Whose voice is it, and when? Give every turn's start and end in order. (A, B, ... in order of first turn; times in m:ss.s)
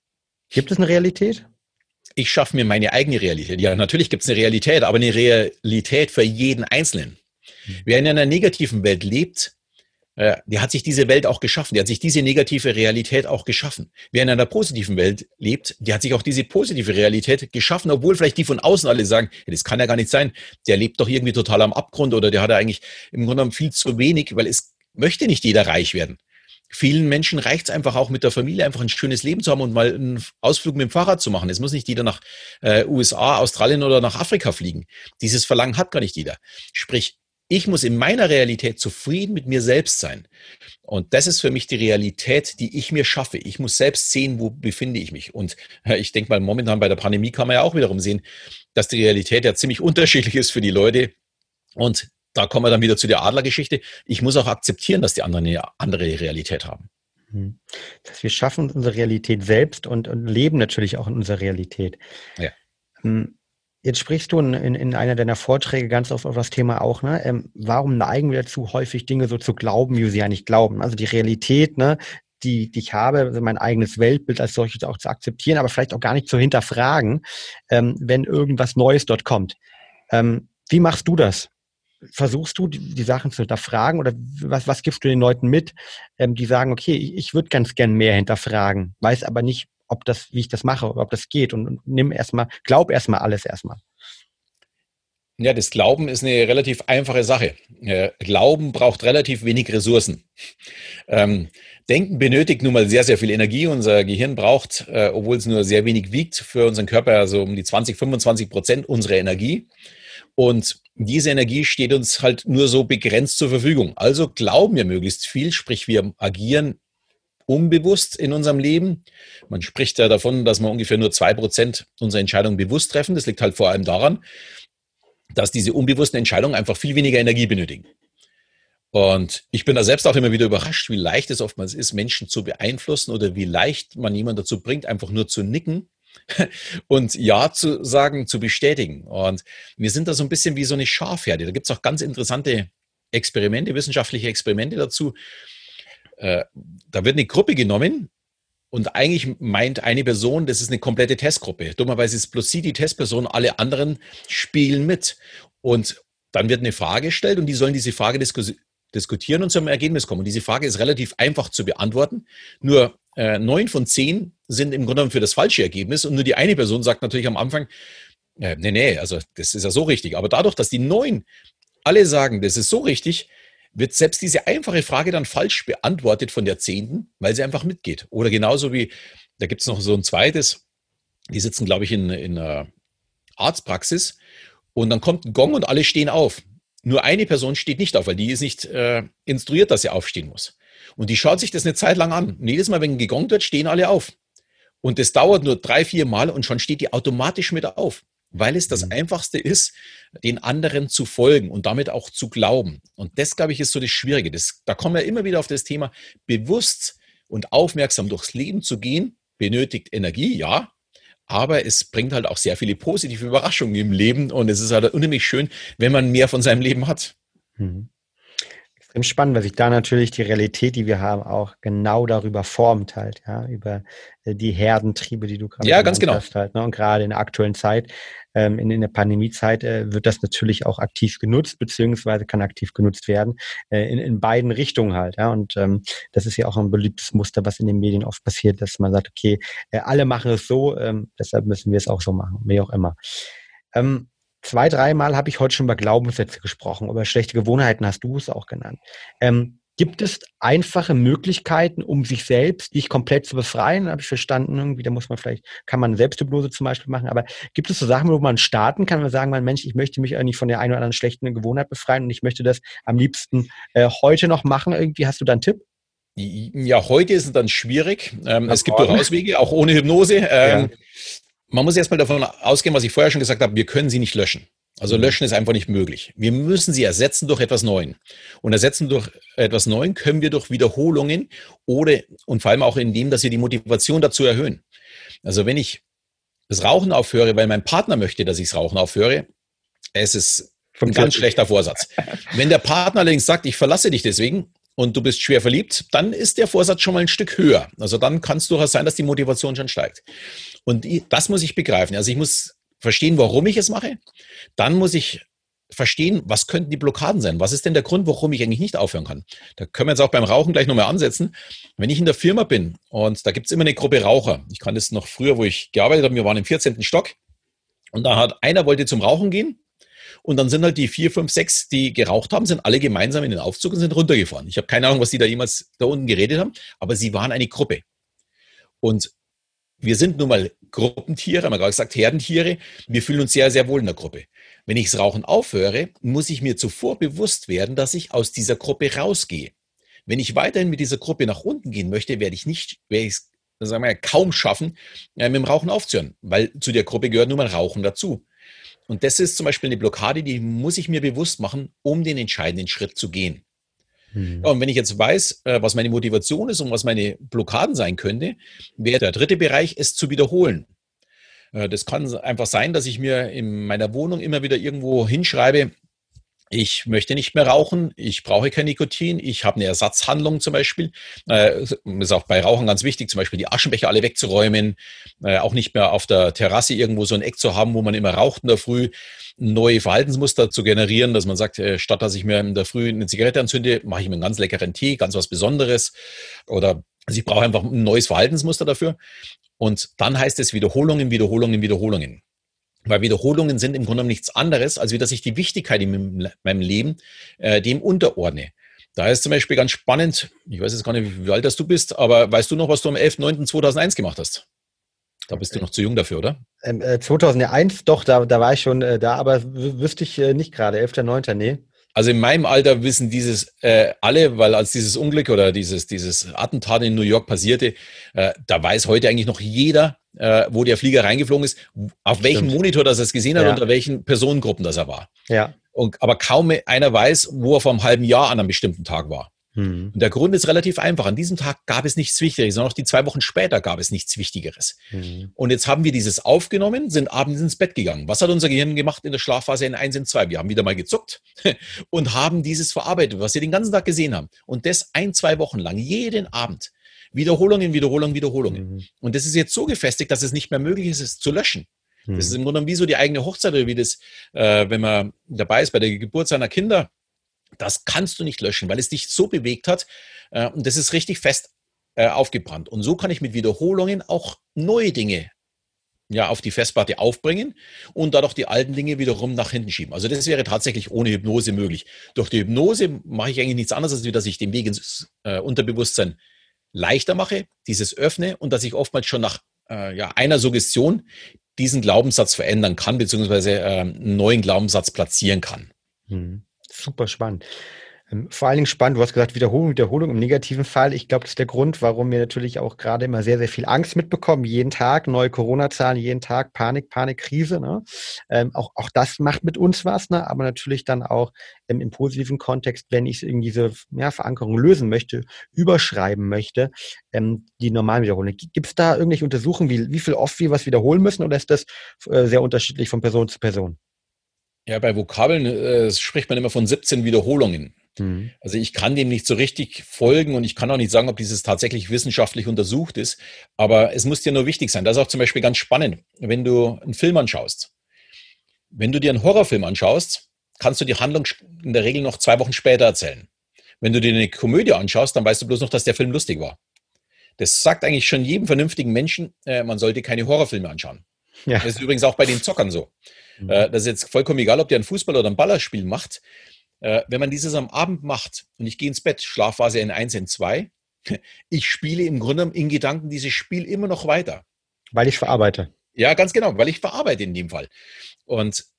0:00.5-0:01.5 A
0:02.2-0:07.2 B
0:07.8-0:09.5 B
0:10.2-0:26.2 B
0:26.7-0:40.3 B
0:40.9-0:48.2 B
0:48.8-0:51.1 B
0:51.8-0:56.9 B
0:57.3-1:02.0 A
1:03.0-1:19.6 A
1:20.1-1:21.5 A
1:22.0-1:33.8 A
1:35.4-1:40.3 B
1:41.1-1:49.7 B
1:50.4-1:56.8 B
1:57.5-2:04.2 B
2:05.3-2:07.9 B
2:08.9-2:25.2 B
2:26.2-2:28.1 B
2:28.7-2:47.7 B
2:48.4-2:51.2 B
2:51.8-3:00.6 B
3:01.3-3:02.7 B
3:03.4-3:04.2 B
3:04.8-3:14.1 B
3:14.8-3:30.7 B
3:31.3-3:37.1 B
3:37.6-3:37.9 A
3:38.8-4:03.0 A
3:45.6-3:46.2 B
4:03.7-4:25.6 A
4:26.2-4:30.8 B
4:28.5-4:29.1 A
4:30.4-4:30.7 A
4:31.5-4:44.6 B
4:34.9-4:35.2 A
4:45.2-4:45.8 B
4:46.5-4:49.3 B
4:50.0-5:00.0 B
4:50.8-4:51.2 A
5:00.7-5:04.0 B
5:04.6-5:17.2 B
5:17.9-5:19.6 B
5:20.2-5:27.8 B
5:28.8-5:29.1 B
5:29.8-5:39.5 B
5:40.1-5:48.2 B
5:48.9-5:53.4 B
5:54.1-5:54.5 A
5:54.4-6:00.7 B
6:01.5-6:05.7 B
6:06.5-6:25.9 B
6:26.5-6:29.0 B
6:29.6-6:32.2 B
6:32.9-6:44.4 B
6:45.3-6:46.4 B
6:45.4-6:45.6 A
6:46.6-6:51.6 A
6:52.0-7:05.1 B
7:02.3-7:02.6 A
7:05.3-7:05.6 A
7:05.7-7:09.3 B
7:09.6-7:10.0 A
7:09.9-7:14.8 B
7:14.9-7:15.3 A
7:15.4-7:36.9 B
7:28.5-7:28.8 A
7:32.1-7:32.4 A
7:37.6-7:45.3 B
7:46.1-7:56.2 B
7:56.7-8:05.7 B
8:06.1-8:07.5 A
8:08.1-8:33.8 A
8:34.7-8:37.8 B
8:38.0-8:38.3 A
8:38.4-8:47.7 B
8:48.7-8:53.3 B
8:53.8-8:56.6 B
8:57.4-9:01.0 B
9:01.5-9:01.7 A
9:01.6-9:02.9 B
9:03.5-9:06.2 B
9:06.8-9:14.4 B
9:14.9-9:15.7 A
9:16.0-9:17.7 B
9:18.3-9:18.7 B